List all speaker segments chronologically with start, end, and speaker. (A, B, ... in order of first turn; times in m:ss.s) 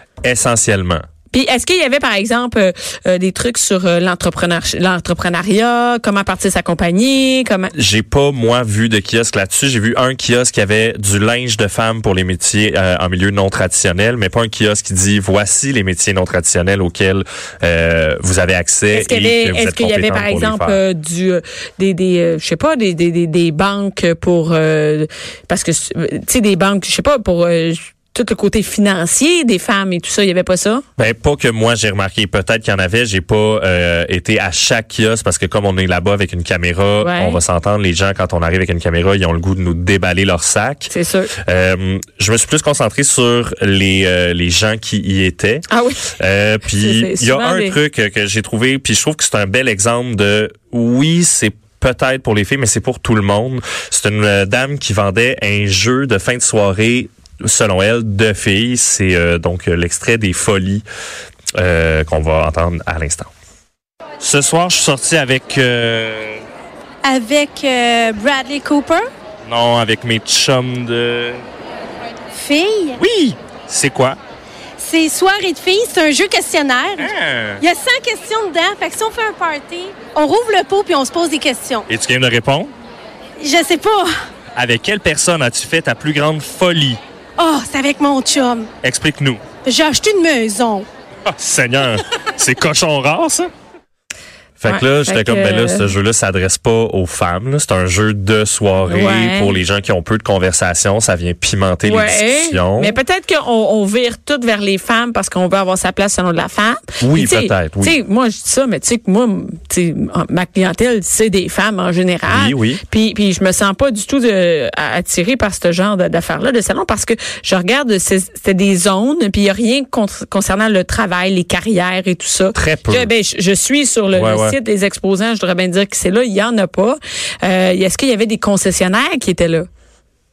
0:00.2-0:01.0 A
0:01.3-0:07.7 B
0:07.7-0:20.8 A
0:18.9-0:30.8 B
0:31.0-0:45.6 A
0:37.0-0:37.4 B
0:40.9-0:41.3 B
0:45.7-0:46.1 B
0:46.2-1:00.8 A
0:46.7-0:47.8 B
1:01.6-1:03.3 A
1:04.2-1:06.4 A
1:07.0-1:09.0 C
1:09.4-1:11.4 A
1:12.3-1:13.0 C
1:13.0-1:14.2 A
1:14.8-1:21.8 C
1:17.0-1:17.6 A
1:21.9-1:22.7 A
1:23.4-1:24.1 C
1:24.5-1:27.0 A
1:27.4-1:28.7 C
1:28.8-1:29.4 A
1:29.6-1:30.9 C
1:31.3-1:33.5 A
1:34.6-1:43.0 A
1:34.6-1:35.9 B
1:38.9-1:39.6 B
1:41.8-2:09.7 B
1:47.0-1:48.0 A
1:52.2-1:52.8 A
2:02.5-2:03.1 A
2:04.1-2:04.6 A